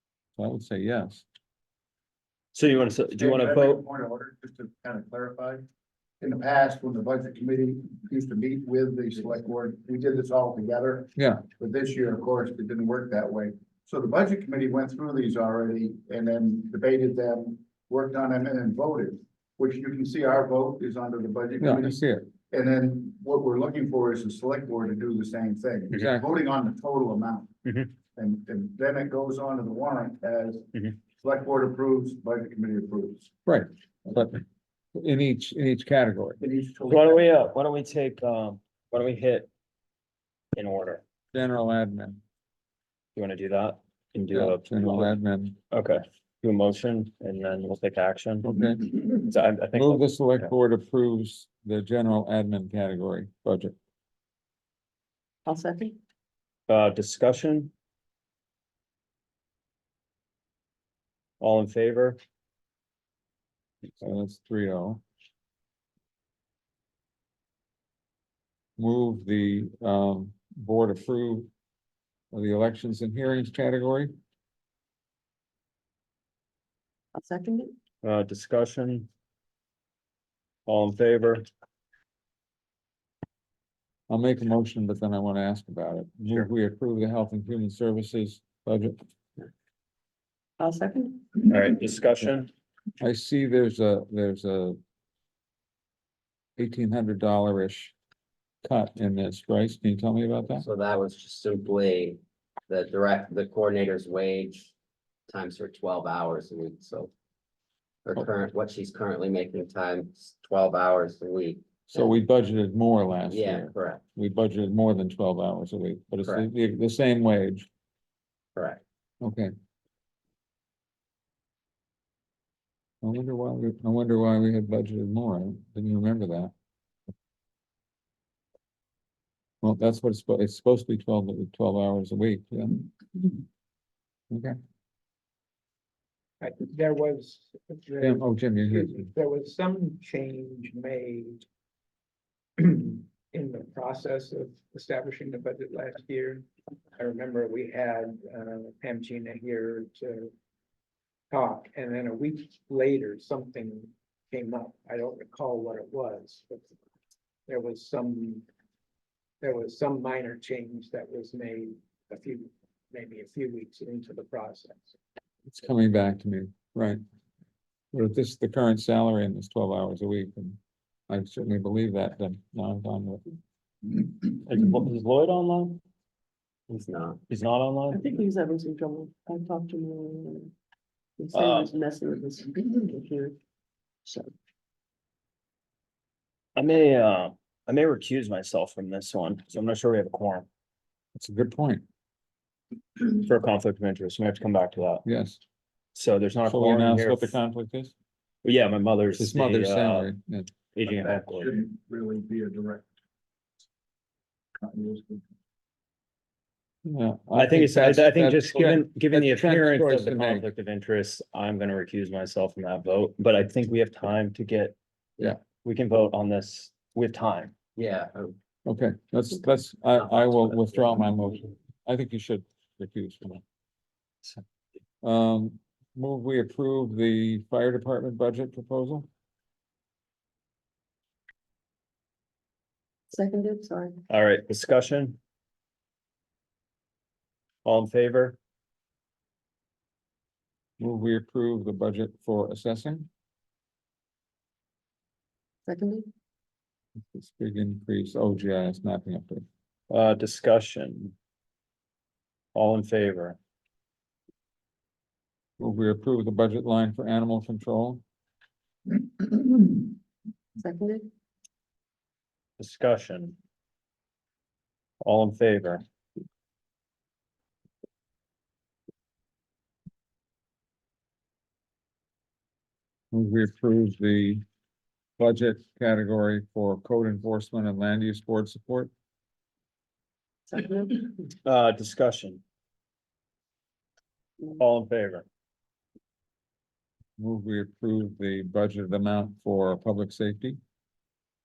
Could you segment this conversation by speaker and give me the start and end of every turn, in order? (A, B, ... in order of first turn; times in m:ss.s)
0:00.4-0:01.2 A
0:02.5-0:03.8 B
0:03.1-0:05.6 C
0:06.2-0:27.5 C
0:11.2-0:11.4 A
0:21.6-0:22.3 A
0:26.0-0:26.2 A
0:28.2-0:33.3 C
0:33.5-0:34.4 A
0:35.0-0:36.4 A
0:36.4-0:37.2 C
0:36.9-0:39.5 B
0:40.6-0:41.0 B
0:41.3-0:42.2 A
0:43.2-0:45.1 B
0:44.3-0:45.6 A
0:45.7-0:50.1 B
0:48.4-0:48.9 A
0:49.7-0:53.8 A
0:55.5-0:56.0 D
0:56.7-0:57.7 B
1:01.4-1:02.2 B
1:04.0-1:05.0 A
1:08.8-1:11.5 A
1:12.3-1:14.1 A
1:17.2-1:17.8 D
1:18.0-1:19.1 B
1:20.7-1:21.5 B
1:24.1-1:29.0 A
1:30.6-1:31.4 D
1:31.5-1:32.5 B
1:33.0-1:34.8 A
1:36.6-1:38.0 A
1:38.6-1:40.7 A
1:40.5-1:44.7 E
1:45.3-1:47.1 E
1:48.0-1:52.1 E
1:51.9-1:57.7 A
1:53.3-1:54.0 E
1:58.6-1:58.8 E
1:59.2-1:59.5 A
2:03.0-2:06.5 A
2:09.6-2:12.9 A
2:14.3-2:14.6 A
2:16.4-2:21.4 F
2:18.0-2:19.1 A
2:22.6-2:30.3 F
2:31.3-2:36.7 F
2:37.5-2:38.5 F
2:39.4-2:44.9 F
2:45.5-2:47.0 A
2:47.9-2:50.6 A
2:51.1-2:53.2 A
2:54.2-2:55.8 B
2:56.7-2:57.2 E
2:57.3-2:58.0 B
2:57.9-3:00.5 D
3:01.2-3:03.4 D
3:01.3-3:01.7 B
3:04.0-3:04.3 D
3:06.6-3:10.5 B
3:11.2-3:11.8 A
3:13.0-3:15.0 B
3:15.0-3:15.4 A
3:15.9-3:17.4 B
3:16.5-3:17.9 A
3:18.4-3:20.1 B
3:19.2-3:20.5 A
3:20.7-3:21.6 B
3:20.9-3:22.9 C
3:24.6-3:25.2 C
3:26.8-3:30.5 A
3:27.4-3:34.8 B
3:35.4-3:37.6 B
3:37.8-3:38.4 E
3:38.7-3:43.4 A
3:40.0-3:41.0 E
3:45.0-3:49.1 A
3:53.1-3:54.0 D
3:54.1-3:55.2 B
3:57.6-3:58.4 B
4:00.8-4:03.1 A
4:05.7-4:06.1 D
4:07.1-4:09.4 A
4:09.9-4:11.1 B
4:12.6-4:13.4 B
4:15.6-4:18.0 A
4:20.6-4:21.1 D
4:22.6-4:23.4 B
4:25.0-4:25.8 B
4:33.1-4:34.4 A
4:35.2-4:38.9 A
4:40.5-4:41.1 D
4:41.4-4:42.4 B
4:44.6-4:45.2 B
4:47.2-4:50.6 A